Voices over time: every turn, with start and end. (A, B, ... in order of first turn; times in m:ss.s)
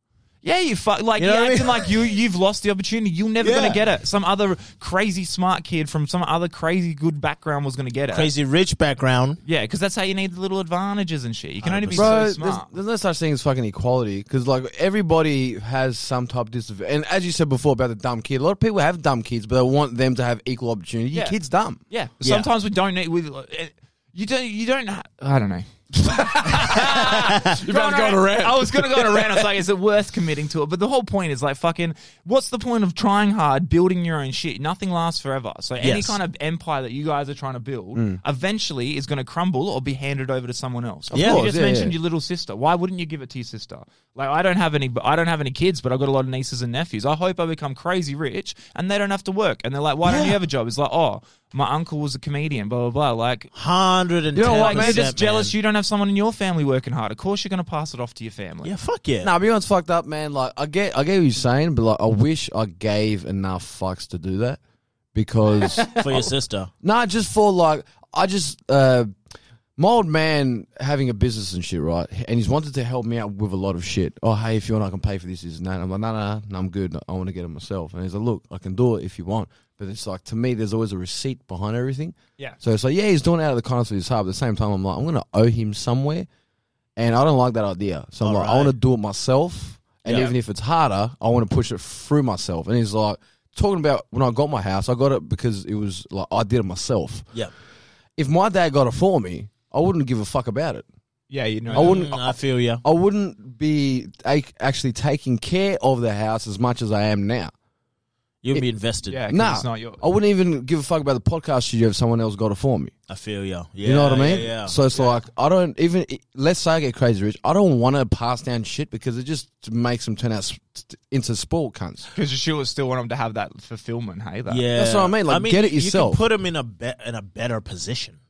0:00.4-0:08.3 A
0:01.2-0:01.9 B
0:03.4-0:03.8 B
0:08.1-0:09.4 B
0:09.4-0:12.7 A
0:11.6-0:12.2 B
0:11.9-0:21.8 C
0:21.9-0:53.5 A
0:22.2-0:22.5 B
0:26.4-0:27.0 C
0:27.6-0:29.5 C
0:35.8-0:36.2 B
0:37.9-0:38.2 C
0:41.1-0:41.9 C
0:41.1-0:41.4 B
0:50.0-0:50.4 B
0:53.6-0:55.5 B
0:54.4-0:55.1 C
0:54.4-0:58.7 A
0:58.6-0:59.3 B
0:59.2-1:04.6 C
1:05.1-1:06.2 C
1:05.8-1:06.2 A
1:05.8-1:06.7 B
1:06.8-1:09.1 C
1:09.8-1:26.3 C
1:27.0-1:37.3 C
1:28.2-1:28.7 B
1:30.0-1:30.3 A
1:38.2-1:40.8 C
1:41.3-1:42.1 A
1:41.7-1:47.5 C
1:41.7-1:42.8 B
1:48.4-1:49.2 B
1:49.1-1:50.0 A
1:49.3-1:52.9 C
1:53.1-1:54.8 B
1:53.8-2:02.1 C
2:02.1-2:04.7 A
2:04.5-2:08.2 B
2:04.8-2:06.2 C